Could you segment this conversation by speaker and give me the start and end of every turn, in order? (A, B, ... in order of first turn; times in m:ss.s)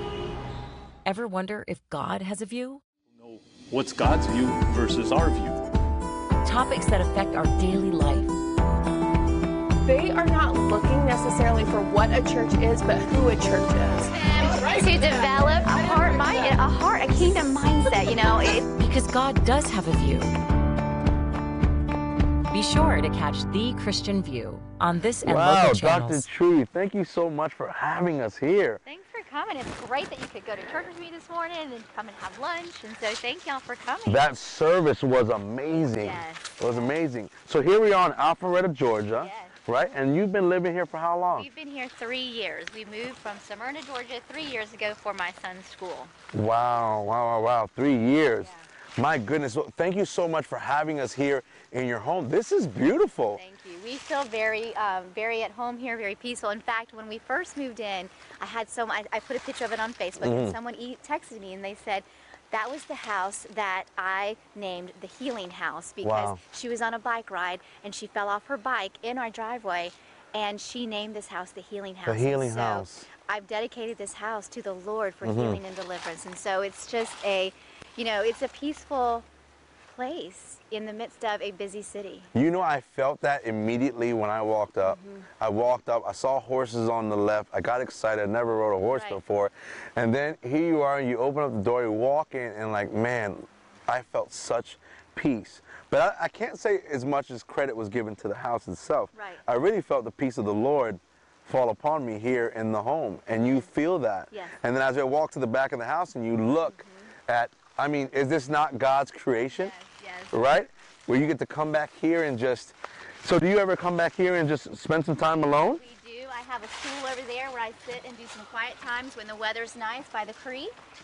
0:01.0-0:02.8 A
0:03.1-0:05.6 B
0:06.4-0:08.3 A
0:09.8-0:14.1 C
0:14.3-0:18.7 D
0:18.8-0:20.4 A
0:22.5-0:26.2 A
0:25.2-0:28.8 E
0:28.8-0:34.3 D
0:34.0-0:41.5 E
0:36.0-0:36.9 D
0:39.1-0:39.6 D
0:41.3-0:46.1 D
0:46.3-0:53.4 E
0:53.3-1:19.2 D
1:00.2-1:00.6 E
1:06.0-1:06.4 E
1:12.0-1:13.1 E
1:15.2-1:15.6 E
1:19.8-1:22.3 D
1:22.3-1:49.7 E
1:24.8-1:25.2 D
1:28.9-1:29.2 D
1:39.1-1:39.4 D
1:43.4-1:43.7 D
1:44.3-1:44.6 D
1:46.6-1:47.1 D
1:49.5-1:50.3 D
1:50.3-1:55.8 E
1:55.7-2:00.7 D